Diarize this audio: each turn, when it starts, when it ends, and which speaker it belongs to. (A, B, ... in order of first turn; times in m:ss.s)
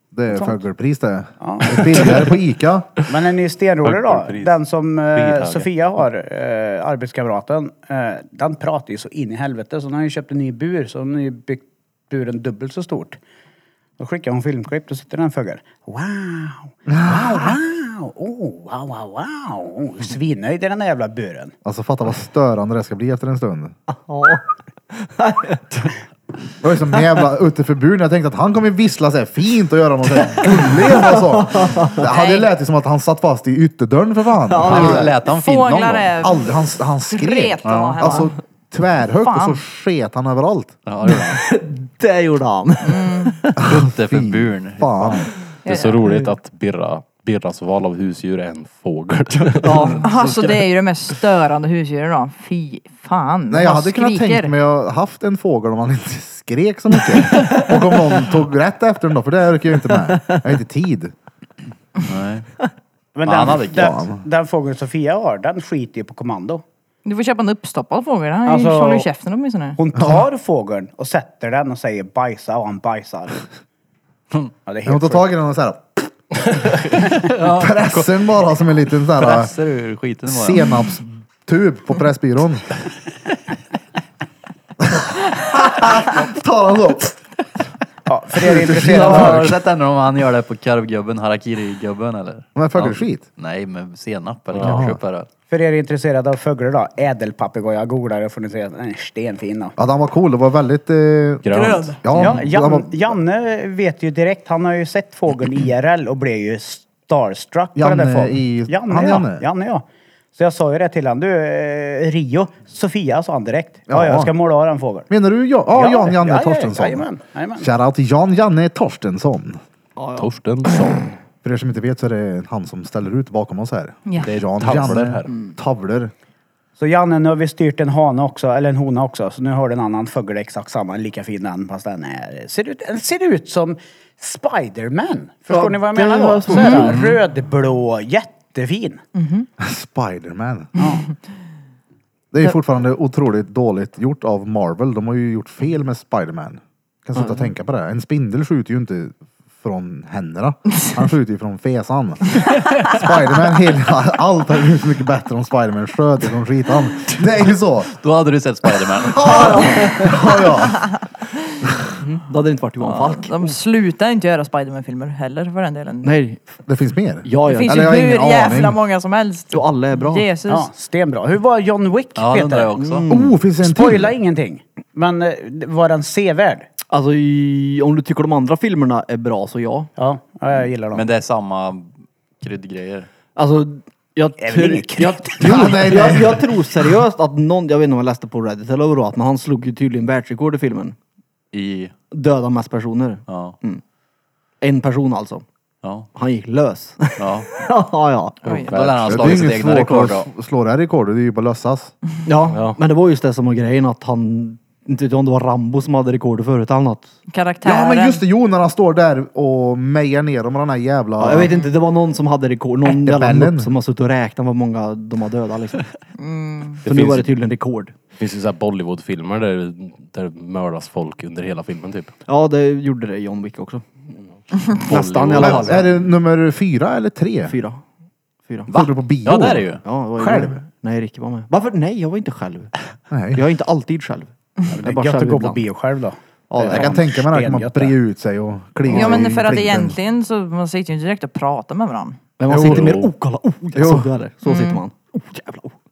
0:00.1-0:03.0 A
0:00.3-0:00.6 B
0:01.4-0:02.3 B
0:03.1-0:13.2 B
0:03.8-0:04.6 C
0:05.1-0:05.7 C
0:14.0-0:21.5 B
0:16.9-0:17.6 A
0:21.6-0:23.8 A
0:23.9-0:24.4 D
0:25.0-0:25.6 D
0:26.6-0:35.2 A
0:31.4-0:32.0 D
0:32.0-0:32.5 E
0:34.5-0:35.1 D
0:34.6-0:36.2 F
0:35.2-0:36.6 E
0:36.2-0:40.7 A
0:37.1-0:38.4 E
0:37.6-0:38.1 F
0:39.2-0:39.6 E
0:40.9-0:41.4 F
0:41.1-0:43.4 D
0:42.8-0:43.4 E
0:43.5-0:45.3 F
0:43.6-0:45.3 A
0:45.6-0:46.1 E
0:45.7-0:50.0 C
0:49.6-0:50.1 D
0:50.0-0:54.5 E
0:50.1-0:50.6 F
0:53.5-1:01.1 A
1:02.0-1:02.5 F
1:03.2-1:06.6 B
1:03.2-1:04.0 F
1:03.7-1:04.2 A
1:07.0-1:09.8 E
1:08.4-1:09.1 B
1:09.8-1:13.4 B
1:10.0-1:10.2 A
1:14.7-1:15.3 B
1:14.8-1:16.1 A
1:16.9-1:18.1 F
1:17.4-1:19.5 A
1:19.1-1:20.7 F
1:20.3-1:22.7 A
1:24.9-1:27.2 A
1:28.1-1:29.5 B
1:28.4-1:29.6 A
1:28.8-1:35.3 F
1:32.6-1:33.2 A
1:34.5-1:34.9 C
1:34.6-1:35.0 A
1:35.5-1:39.8 B
1:39.8-1:43.2 A
1:41.4-1:42.0 C
1:42.1-1:49.8 B
1:47.8-1:49.5 A
1:50.4-1:55.1 B
1:53.9-1:54.3 A
1:55.1-1:59.6 A
1:55.8-1:57.7 B
2:00.0-2:00.8 D
2:00.2-2:01.1 C
2:01.4-2:06.1 A
2:04.2-2:05.3 C
2:06.8-2:19.0 B
2:15.5-2:17.1 D
2:16.5-2:16.8 E
2:16.9-2:17.2 F
2:19.2-2:19.5 E
2:19.6-2:20.7 A
2:20.8-2:21.0 B
2:22.3-2:37.9 A
2:27.2-2:27.5 D
2:37.9-2:39.9 F
2:39.1-2:40.9 A
2:39.2-2:40.0 D
2:42.0-2:43.6 D
2:42.9-2:46.2 E
2:46.0-2:46.4 D
2:46.7-2:48.8 A
2:47.2-2:47.9 D
2:47.4-2:50.7 E
2:49.5-2:50.3 D
2:50.5-2:52.7 B
2:52.2-2:53.1 F
2:52.8-2:53.4 D
2:53.1-2:54.1 A
2:53.6-2:56.7 B
2:56.9-2:59.9 D
3:00.0-3:01.0 B
3:00.9-3:03.1 F
3:03.4-3:11.0 D
3:04.4-3:06.0 B
3:05.4-3:06.5 A
3:11.5-3:11.9 F
3:12.1-3:13.8 D
3:13.3-3:13.6 F
3:14.6-3:15.4 D
3:15.8-3:16.1 F
3:16.1-3:18.5 D
3:17.2-3:17.6 F
3:18.4-3:19.5 C
3:18.6-3:20.3 F
3:19.1-3:21.9 A
3:22.3-3:27.1 D
3:27.3-3:28.2 E
3:27.6-3:31.5 A
3:31.2-3:35.9 D
3:31.4-3:31.7 E
3:32.8-3:33.7 A
3:36.2-3:36.8 E
3:36.8-3:37.3 C
3:36.8-3:37.9 D
3:38.2-3:42.1 C
3:42.3-3:44.1 D
3:44.8-3:45.8 D
3:44.9-3:45.9 F
3:45.0-3:45.6 C
3:45.4-3:47.6 A
3:47.5-3:47.8 D
3:48.7-3:49.8 F
3:48.7-3:50.6 A
3:49.8-3:52.7 D
3:53.1-3:53.4 A
3:53.3-3:54.3 D
3:54.7-3:57.9 B
3:54.8-3:55.6 D
3:56.5-3:57.0 D
3:56.6-4:00.0 A
3:58.9-4:02.2 E
4:02.4-4:05.8 D
4:02.5-4:02.9 A
4:02.5-4:03.1 C
4:03.8-4:04.1 A
4:04.4-4:04.8 E